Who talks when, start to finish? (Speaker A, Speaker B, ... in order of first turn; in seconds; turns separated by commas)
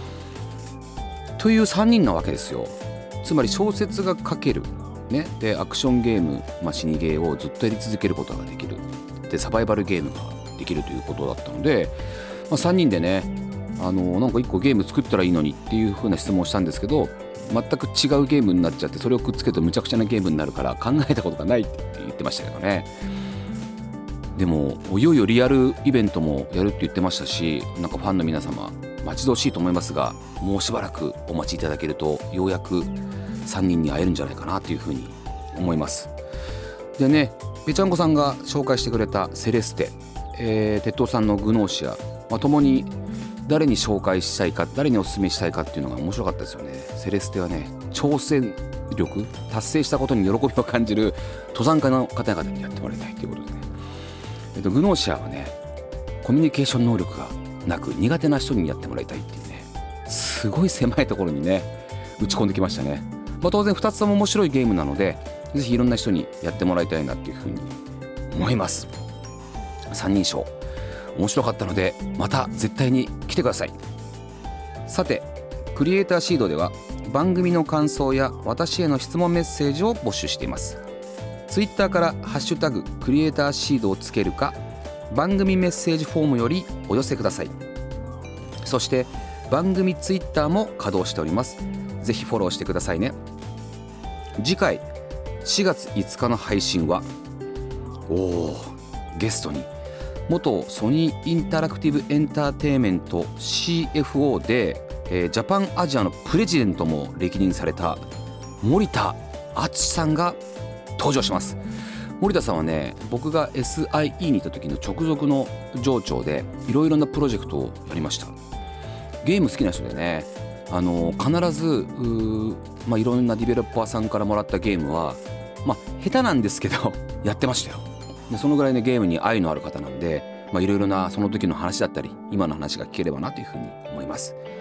Speaker A: 1.4-22.9, Speaker A: 24.3-36.1, Speaker A: 37.0-42.9, Speaker A: 43.5-53.7, Speaker A: 54.5-55.5, Speaker A: 56.2-67.8, Speaker A: 68.3-68.9, Speaker A: 69.9-70.5, Speaker A: 71.1-73.8, Speaker A: 74.9-80.8, Speaker A: 81.5-84.6, Speaker A: 85.1-87.5, Speaker A: 88.6-93.2, Speaker A: 94.4-94.8, Speaker A: 95.4-97.1, Speaker A: 98.1-99.7, Speaker A: 100.3-108.0, Speaker A: 108.6-110.4, Speaker A: 111.0-111.6, Speaker A: 112.2-118.4, Speaker A: 119.2-134.4